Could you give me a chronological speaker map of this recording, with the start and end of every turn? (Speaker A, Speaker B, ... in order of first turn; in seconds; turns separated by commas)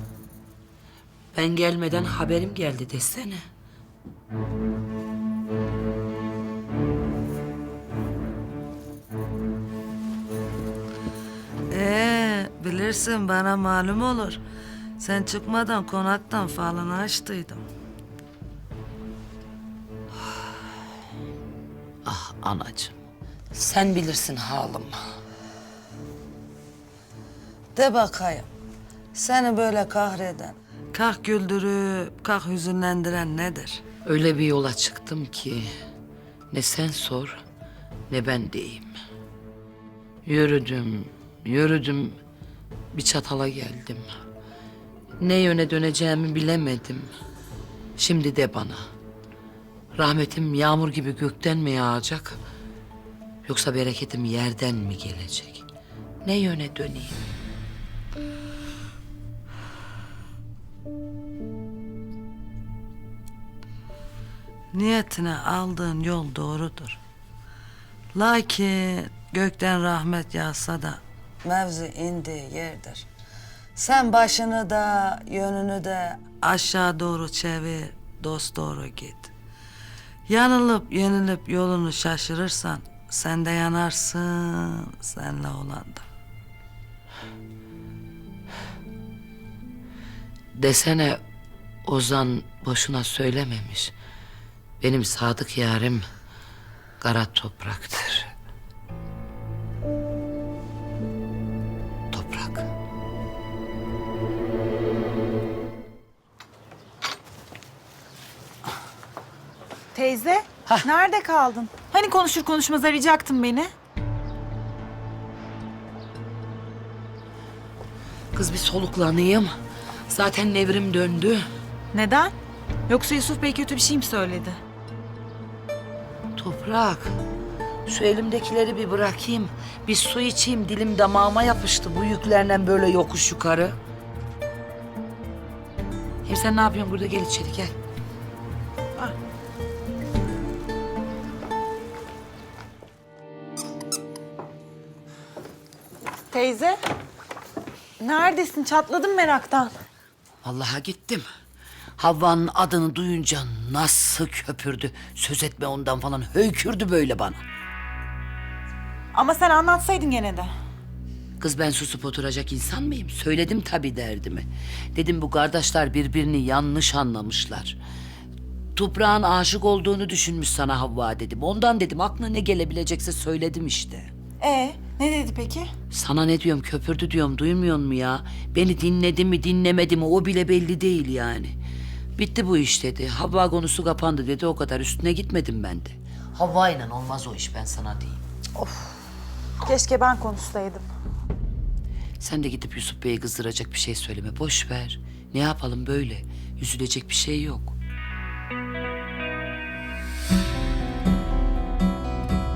Speaker A: 1.3-3.4, Speaker B: 11.7-14.4, Speaker B: 15.0-17.6, Speaker A: 22.0-22.9, Speaker A: 23.5-25.0, Speaker B: 27.7-28.5, Speaker B: 29.1-33.8, Speaker A: 34.0-35.7, Speaker A: 36.5-37.4, Speaker A: 38.1-38.9, Speaker A: 40.2-42.2, Speaker A: 42.9-44.1, Speaker A: 45.2-47.1, Speaker A: 48.0-48.8, Speaker A: 49.9-52.4, Speaker A: 53.4-55.6, Speaker A: 56.2-57.2, Speaker B: 64.7-67.0, Speaker B: 68.1-73.1, Speaker B: 73.7-79.3, Speaker B: 80.3-86.0, Speaker A: 90.5-91.2, Speaker A: 91.8-93.9, Speaker A: 94.8-96.1, Speaker A: 97.0-98.3, Speaker A: 102.1-102.7, Speaker C: 109.9-113.7, Speaker A: 118.3-119.5, Speaker A: 120.1-121.5, Speaker C: 121.9-122.3, Speaker C: 122.9-124.6, Speaker A: 126.3-127.2, Speaker A: 127.8-133.8, Speaker A: 136.2-137.7, Speaker C: 146.3-146.8, Speaker C: 148.0-149.7, Speaker A: 150.4-151.2, Speaker A: 152.0-157.4, Speaker C: 159.1-160.5, Speaker A: 161.4-167.8, Speaker A: 168.7-174.1, Speaker C: 174.4-175.7, Speaker A: 175.9-181.6, Speaker A: 182.2-188.2, Speaker C: 188.6-188.9, Speaker C: 189.6-190.9, Speaker A: 192.2-197.7